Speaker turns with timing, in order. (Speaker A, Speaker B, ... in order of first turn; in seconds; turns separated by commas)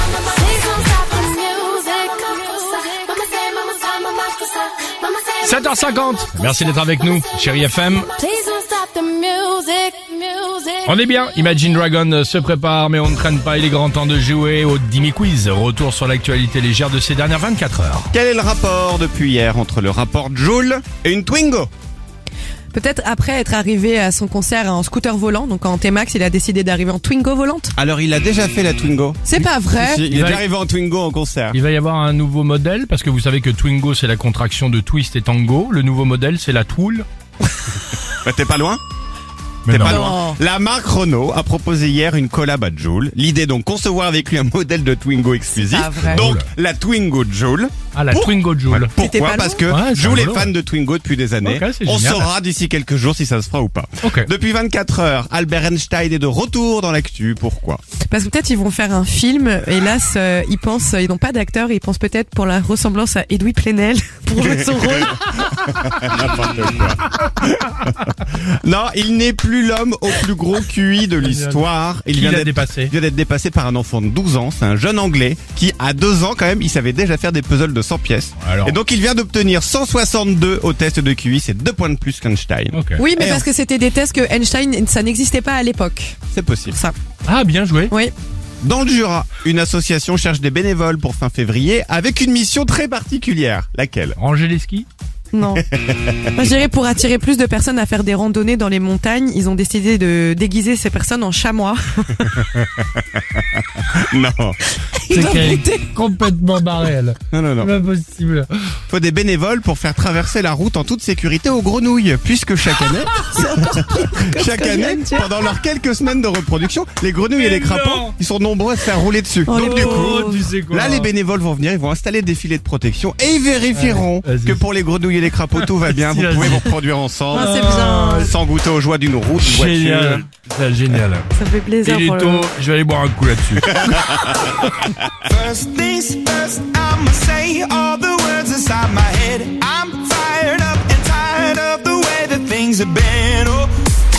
Speaker A: 1.0-3.6, Speaker B: 5.4-8.1, Speaker A: 8.3-9.9, Speaker B: 10.8-18.1, Speaker C: 18.1-21.7, Speaker D: 22.7-27.7, Speaker C: 27.8-31.6, Speaker D: 29.2-30.0, Speaker B: 30.1-30.4, Speaker B: 31.5-37.1, Speaker C: 38.1-38.8, Speaker B: 39.6-40.1, Speaker C: 39.7-57.8, Speaker D: 39.9-40.4, Speaker D: 45.5-46.3, Speaker B: 46.0-46.5, Speaker B: 47.9-48.9, Speaker D: 49.0-49.6, Speaker B: 49.7-50.5, Speaker B: 51.4-52.3, Speaker B: 54.0-54.3, Speaker D: 58.1-65.2, Speaker C: 64.5-83.5, Speaker B: 71.2-72.9, Speaker B: 78.4-78.8, Speaker B: 82.7-83.0, Speaker D: 83.0-86.2, Speaker C: 86.3-86.8, Speaker D: 86.7-87.0, Speaker B: 87.2-87.9, Speaker C: 88.6-94.2, Speaker B: 94.2-94.9, Speaker D: 95.3-95.6, Speaker C: 95.7-96.5, Speaker D: 96.3-102.3, Speaker C: 102.3-104.6, Speaker D: 104.9-105.9, Speaker B: 105.1-108.5, Speaker C: 107.3-107.7, Speaker C: 108.9-127.6, Speaker D: 113.1-115.3, Speaker B: 117.4-118.1, Speaker D: 119.5-120.5, Speaker B: 119.5-121.1, Speaker B: 123.7-124.6, Speaker B: 125.6-126.8, Speaker D: 127.3-128.3, Speaker B: 127.3-128.3, Speaker C: 128.1-130.2, Speaker B: 129.4-131.3, Speaker D: 131.3-132.4, Speaker B: 131.8-134.4, Speaker C: 133.9-134.4, Speaker E: 135.3-143.7